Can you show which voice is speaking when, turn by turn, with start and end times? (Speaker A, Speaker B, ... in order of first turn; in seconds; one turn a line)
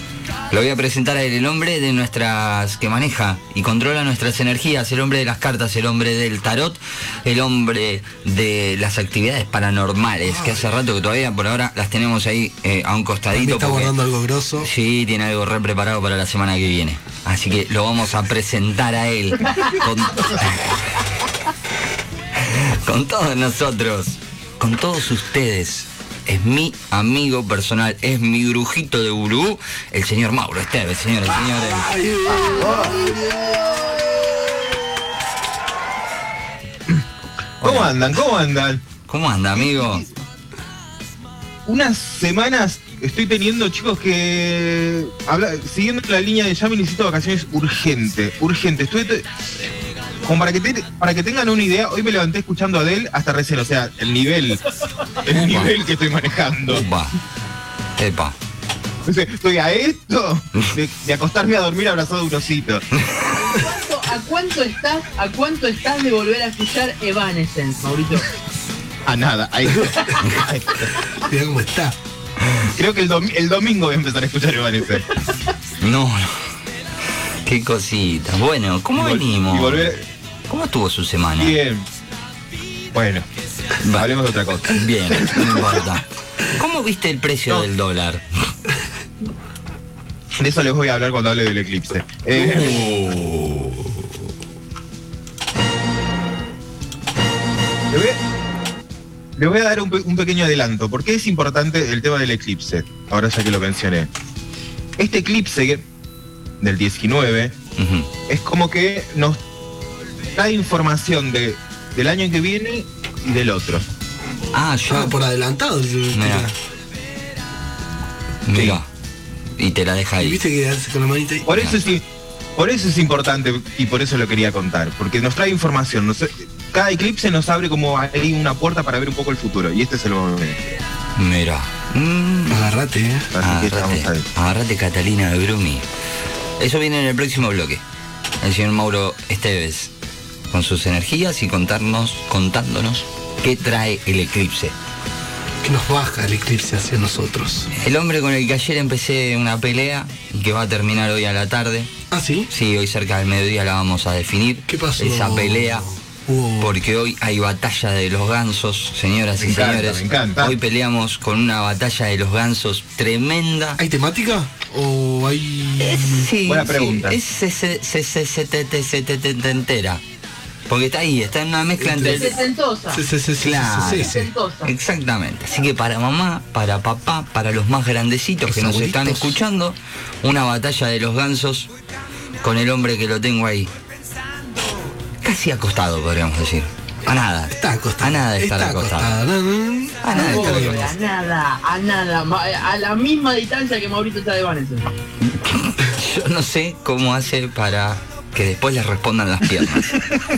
Speaker A: 0.5-13.9
Speaker B: 10.2-10.6
Speaker B: 13.3-14.7
Speaker A: 14.6-20.8
Speaker A: 22.4-31.9
Speaker B: 31.5-34.6
Speaker C: 32.3-33.0
Speaker A: 37.6-38.0
Speaker C: 37.6-38.8
Speaker A: 39.1-40.0
Speaker C: 39.5-40.1
Speaker C: 41.6-49.2
Speaker C: 50.2-54.6
Speaker C: 55.2-56.9
Speaker A: 55.3-55.7
Speaker A: 56.7-57.1
Speaker A: 58.0-58.4
Speaker C: 59.0-62.8
Speaker A: 63.0-63.3
Speaker D: 63.3-68.3
Speaker C: 69.0-70.9
Speaker B: 71.1-72.0
Speaker C: 72.7-75.2
Speaker A: 75.8-76.5
Speaker A: 77.4-79.9
Speaker C: 79.0-80.0
Speaker A: 80.5-81.6
Speaker C: 81.4-81.8
Speaker C: 82.9-83.2
Speaker A: 83.8-84.1
Speaker C: 83.9-85.8
Speaker A: 84.6-88.2
Speaker C: 90.4-92.9
Speaker A: 92.3-93.9
Speaker C: 97.9-98.2
Speaker C: 99.4-104.1
Speaker C: 105.0-105.8
Speaker C: 106.6-107.5
Speaker A: 107.8-108.1
Speaker C: 108.3-109.4
Speaker C: 110.3-113.8
Speaker A: 114.5-115.2
Speaker B: 114.9-116.5
Speaker A: 116.1-116.5
Speaker A: 118.5-118.9
Speaker C: 118.5-118.8
Speaker A: 119.6-120.4
Speaker B: 120.2-121.5
Speaker C: 121.5-130.6
Speaker A: 131.2-132.7
Speaker B: 132.5-133.3
Speaker C: 133.3-134.2
Speaker A: 133.4-135.8
Speaker A: 136.6-137.8
Speaker A: 138.4-139.9
Speaker A: 140.5-144.7
Speaker B: 145.6-147.7
Speaker A: 147.7-151.9
Speaker B: 152.1-152.5
Speaker A: 152.5-155.8
Speaker B: 154.7-156.8
Speaker A: 156.6-163.8
Speaker C: 159.4-160.6
Speaker B: 163.8-166.3
Speaker A: 165.8-170.0
Speaker C: 166.4-167.2
Speaker A: 170.7-172.4
Speaker B: 171.8-172.4
Speaker D: 172.0-173.0
Speaker B: 172.9-174.3
Speaker A: 173.4-174.1
Speaker D: 173.8-174.7
Speaker A: 174.6-181.7
Speaker B: 178.4-179.4
Speaker A: 182.4-183.7
Speaker A: 185.2-189.2
Speaker B: 187.5-190.9
Speaker A: 190.0-190.9
Speaker D: 190.1-194.9
Speaker A: 195.2-200.0